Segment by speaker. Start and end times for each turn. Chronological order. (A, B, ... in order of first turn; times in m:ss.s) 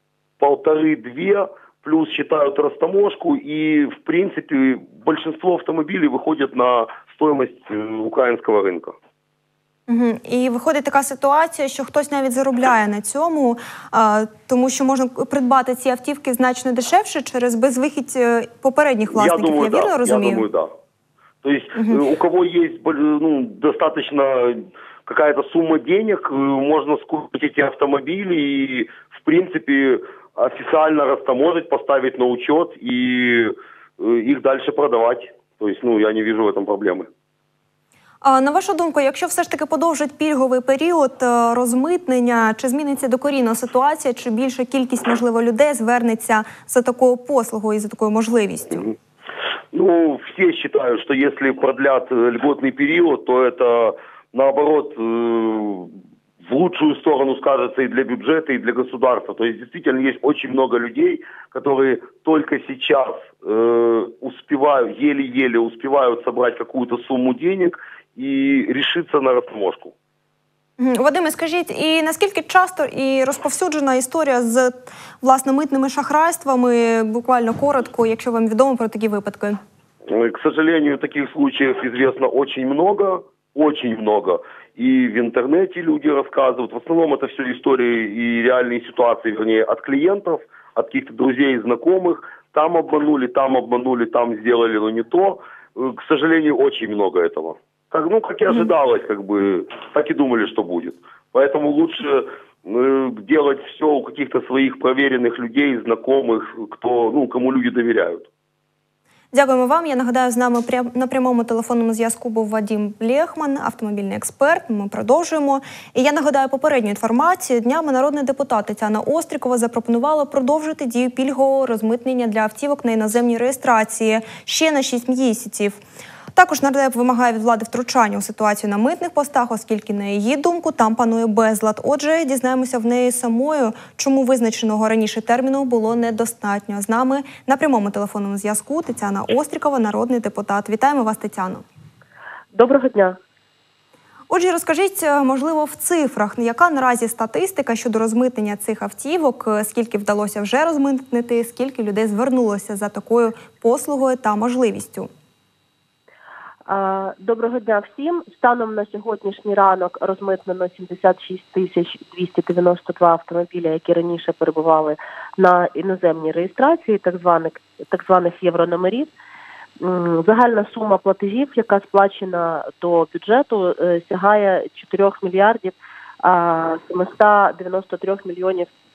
0:00.4-0:09.0 A
0:09.9-0:20.4 B
0:19.1-0:20.7 A
0:21.4-0:37.1 A
0:21.7-0:22.0 B
0:38.2-0:48.9 B
0:49.7-0:55.9 A
0:56.4-1:09.9 A
1:10.8-1:19.6 B
1:20.1-1:48.3 A
1:49.3-2:05.8 B
2:06.3-2:21.6 B
2:22.5-2:23.2 C
2:24.3-2:35.1 B
2:36.6-2:49.1 C
2:49.8-2:58.7 C